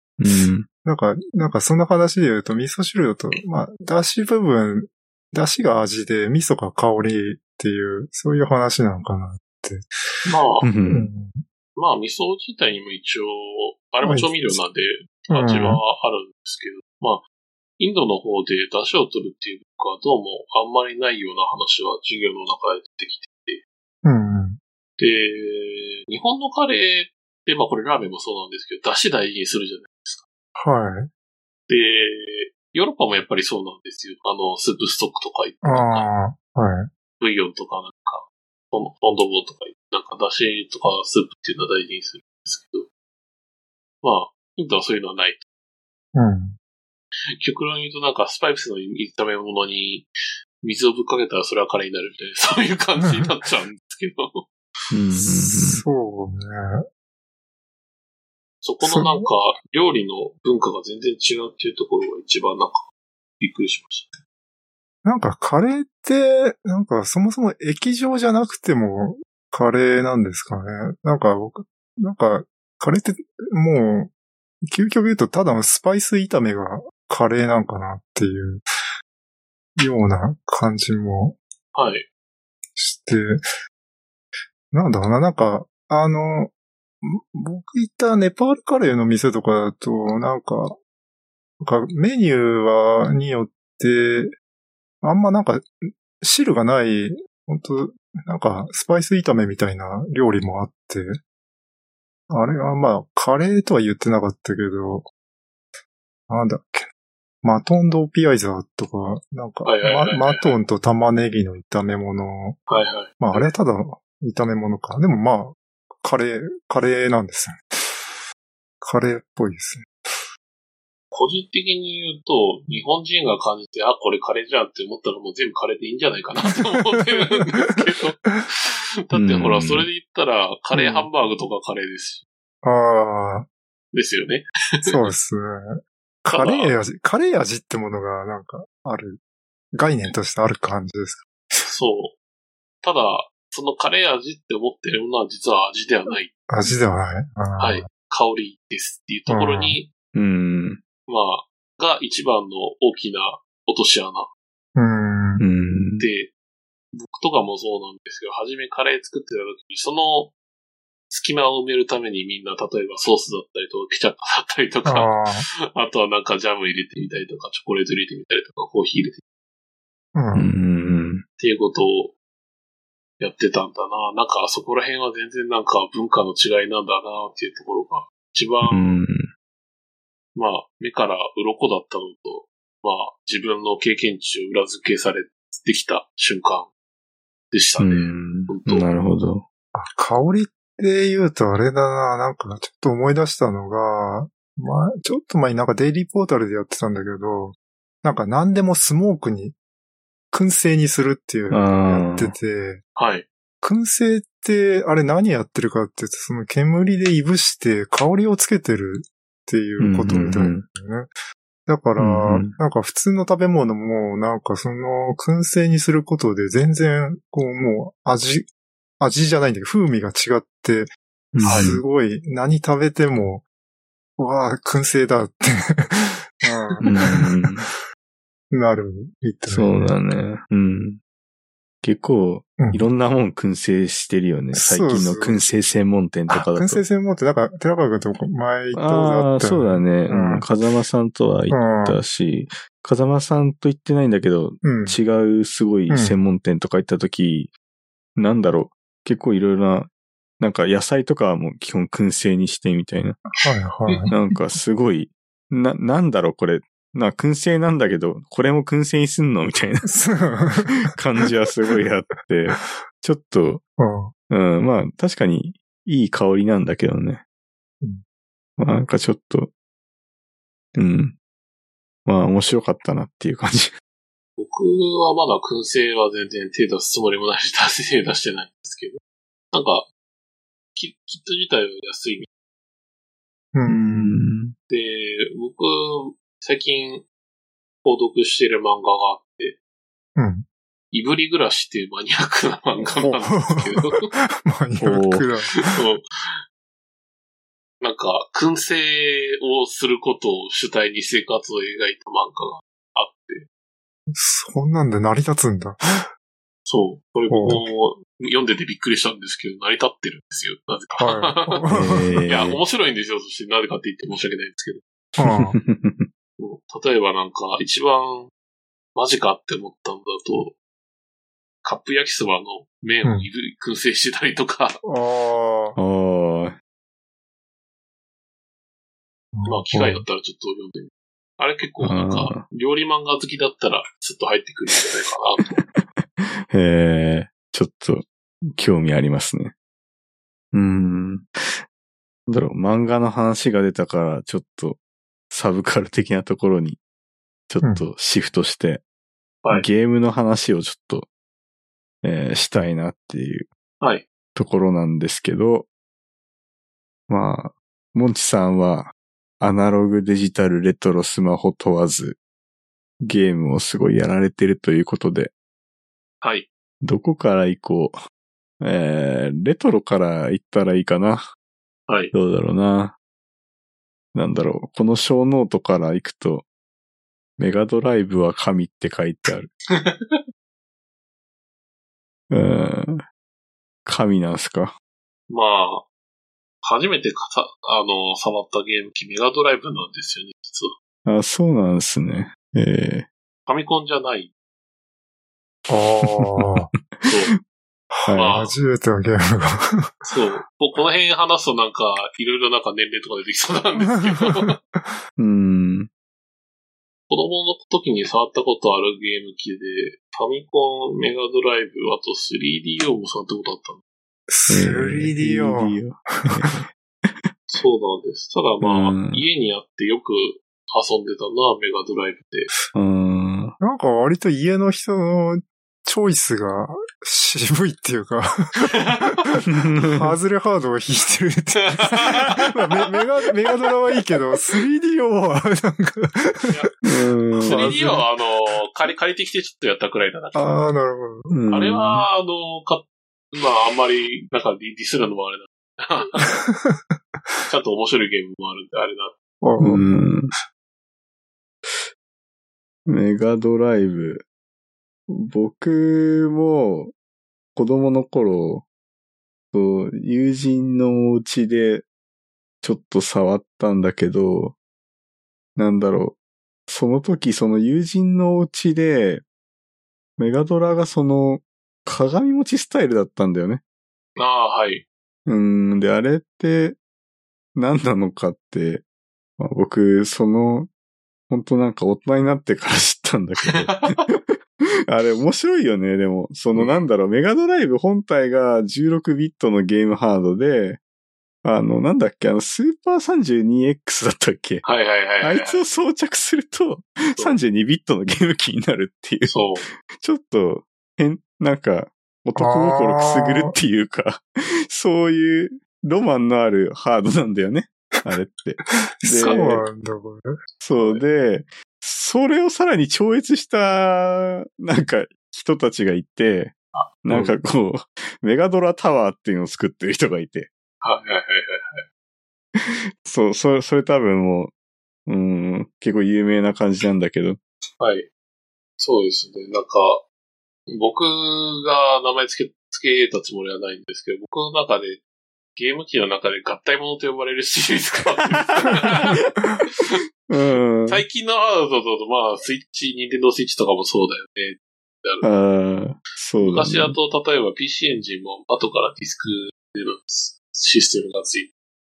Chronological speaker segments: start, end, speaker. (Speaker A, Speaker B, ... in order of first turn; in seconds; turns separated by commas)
Speaker A: 0.2-0.7, Speaker B: 0.8-10.3, Speaker C: 10.2-10.7, Speaker A: 10.6-11.1, Speaker B: 10.8-11.4, Speaker C: 11.8-17.2, Speaker B: 14.0-14.6, Speaker B: 15.3-15.8, Speaker C: 17.8-23.6, Speaker B: 24.0-24.6, Speaker C: 25.0-30.2, Speaker B: 30.6-31.1, Speaker C: 31.7-36.1, Speaker B: 35.6-36.9, Speaker C: 37.2-42.9, Speaker C: 44.0-45.4, Speaker B: 46.1-46.5, Speaker C: 47.4-50.1, Speaker C: 50.6-54.5, Speaker A: 54.9-55.8, Speaker B: 55.3-56.8, Speaker C: 58.6-62.9, Speaker B: 58.8-59.2, Speaker C: 63.4-64.2, Speaker B: 65.0-74.1, Speaker B: 74.6-78.6, Speaker B: 79.8-81.4, Speaker C: 81.7-82.0, Speaker B: 82.8-83.4, Speaker B: 84.7-90.8, Speaker B: 91.6-94.3, Speaker B: 95.0-95.7, Speaker B: 96.2-101.2, Speaker B: 102.3-105.0, Speaker B: 106.3-106.9, Speaker B: 107.4-112.6, Speaker C: 109.6-110.5, Speaker C: 112.7-113.5, Speaker B: 113.2-118.2, Speaker B: 118.8-120.2, Speaker C: 121.1-132.2, Speaker B: 127.3-127.8, Speaker A: 129.1-129.9, Speaker B: 130.7-131.1, Speaker B: 132.6-133.5, Speaker C: 133.9-135.0, Speaker B: 134.8-139.2, Speaker C: 136.3-136.8, Speaker B: 139.7-141.6, Speaker C: 141.6-142.1, Speaker C: 142.8-146.3, Speaker B: 146.5-147.8, Speaker C: 147.6-149.9, Speaker B: 149.3-149.8, Speaker A: 150.1-150.8, Speaker C: 151.1-154.3, Speaker B: 154.8-155.4, Speaker A: 155.4-156.1, Speaker C: 156.0-156.3, Speaker C: 156.9-160.3, Speaker C: 161.1-169.2, Speaker B: 164.8-165.4, Speaker B: 170.1-170.5, Speaker A: 170.3-171.2, Speaker C: 171.4-172.1, Speaker C: 173.2-179.0, Speaker A: 178.7-179.3, Speaker C: 180.3-186.7, Speaker C: 187.5-188.8, Speaker A: 187.8-189.4, Speaker B: 189.7-199.5, Speaker B: 200.3-202.8, Speaker A: 201.5-202.3, Speaker C: 202.9-203.3, Speaker B: 203.6-211.1, Speaker A: 209.8-210.6, Speaker B: 211.7-218.5, Speaker A: 212.0-212.6, Speaker B: 219.0-220.9, Speaker A: 221.3-221.8, Speaker B: 221.4-223.4, Speaker C: 221.4-221.8, Speaker B: 224.2-227.3, Speaker A: 226.8-227.7, Speaker B: 228.5-230.0, Speaker A: 229.5-231.0, Speaker A: 231.8-236.8, Speaker B: 234.5-235.4, Speaker B: 236.3-240.4, Speaker A: 238.8-247.5, Speaker B: 241.5-242.0, Speaker B: 244.6-245.0, Speaker B: 245.9-246.2, Speaker A: 248.2-253.2, Speaker B: 253.4-254.1, Speaker C: 253.9-254.1, Speaker A: 254.1-259.9, Speaker B: 259.8-260.9, Speaker A: 260.7-263.6, Speaker B: 263.8-264.1, Speaker A: 264.3-267.2, Speaker A: 268.6-269.5, Speaker A: 270.7-271.1, Speaker A: 272.1-273.7, Speaker C: 274.4-279.0, Speaker C: 279.5-279.9, Speaker C: 280.8-282.3, Speaker B: 283.5-284.2, Speaker A: 283.7-284.5, Speaker C: 284.7-287.1, Speaker C: 287.8-289.6, Speaker B: 290.1-290.4, Speaker C: 290.9-294.1, Speaker B: 292.8-295.7, Speaker A: 294.8-295.3, Speaker C: 295.6-296.3, Speaker C: 297.8-303.4, Speaker B: 304.1-306.1, Speaker C: 306.7-311.7, Speaker B: 307.3-307.6, Speaker B: 311.0-312.1, Speaker A: 311.7-312.6, Speaker C: 312.3-314.8, Speaker B: 315.2-315.6, Speaker A: 315.2-316.1, Speaker C: 316.4-318.3, Speaker C: 318.9-320.5, Speaker C: 321.6-324.8, Speaker B: 324.8-325.8, Speaker A: 325.8-326.6, Speaker B: 329.3-330.0, Speaker C: 329.4-335.6, Speaker A: 331.8-332.4, Speaker A: 335.6-339.5, Speaker A: 340.5-341.6, Speaker A: 342.3-346.8, Speaker A: 347.5-348.8, Speaker A: 349.5-351.1, Speaker A: 352.0-353.5, Speaker A: 354.3-355.7, Speaker A: 357.1-362.2, Speaker A: 363.0-365.3, Speaker C: 366.2-366.5, Speaker A: 366.8-368.0, Speaker A: 368.6-371.3, Speaker C: 371.9-372.1, Speaker A: 372.1-372.9, Speaker A: 374.1-376.4, Speaker A: 377.4-379.5, Speaker C: 379.8-380.2, Speaker A: 382.3-383.0, Speaker A: 383.9-384.7, Speaker C: 385.3-385.9, Speaker C: 386.6-390.7, Speaker A: 391.1-393.1, Speaker C: 393.5-394.3, Speaker B: 395.7-396.7, Speaker A: 396.0-397.3, Speaker C: 397.1-397.3, Speaker B: 397.9-400.0, Speaker A: 398.1-398.4, Speaker C: 398.1-398.5, Speaker C: 400.1-404.6, Speaker B: 403.8-405.0, Speaker A: 405.2-405.9, Speaker C: 407.1-413.8, Speaker B: 414.3-415.8, Speaker A: 414.5-417.3, Speaker C: 417.5-422.5, Speaker A: 418.6-419.2, Speaker A: 422.7-423.5, Speaker B: 423.6-436.5, Speaker C: 428.6-429.2, Speaker A: 429.4-430.0, Speaker C: 431.6-433.0, Speaker A: 436.8-437.7, Speaker B: 437.4-438.1, Speaker C: 437.4-440.7, Speaker B: 440.3-441.3, Speaker A: 441.3-442.1, Speaker C: 441.5-446.3, Speaker B: 446.3-446.8, Speaker C: 447.5-449.1, Speaker B: 449.4-449.8, Speaker A: 449.6-450.3, Speaker A: 452.9-454.2, Speaker A: 455.1-456.9, Speaker A: 457.5-458.6, Speaker A: 459.5-461.9, Speaker A: 462.6-464.6, Speaker A: 465.6-466.1, Speaker A: 466.7-469.2, Speaker A: 470.2-473.6, Speaker C: 474.2-474.8, Speaker A: 475.3-476.8, Speaker A: 477.6-478.8, Speaker A: 479.4-480.7, Speaker A: 481.3-484.4, Speaker C: 483.4-484.0, Speaker A: 484.9-490.8, Speaker C: 486.5-486.8, Speaker A: 491.4-494.6, Speaker C: 494.6-495.6, Speaker A: 495.2-509.6, Speaker C: 499.3-499.6, Speaker B: 502.4-503.5, Speaker B: 509.0-510.3, Speaker C: 509.1-509.6, Speaker A: 510.6-520.5, Speaker C: 510.7-511.0, Speaker C: 516.7-517.3, Speaker C: 520.8-521.8, Speaker A: 522.6-524.5, Speaker A: 525.1-527.4, Speaker C: 527.8-528.1, Speaker C: 528.8-530.0, Speaker C: 530.7-535.0, Speaker C: 535.5-539.2, Speaker A: 538.6-541.0, Speaker C: 540.9-545.3, Speaker A: 545.2-547.0, Speaker C: 546.4-551.5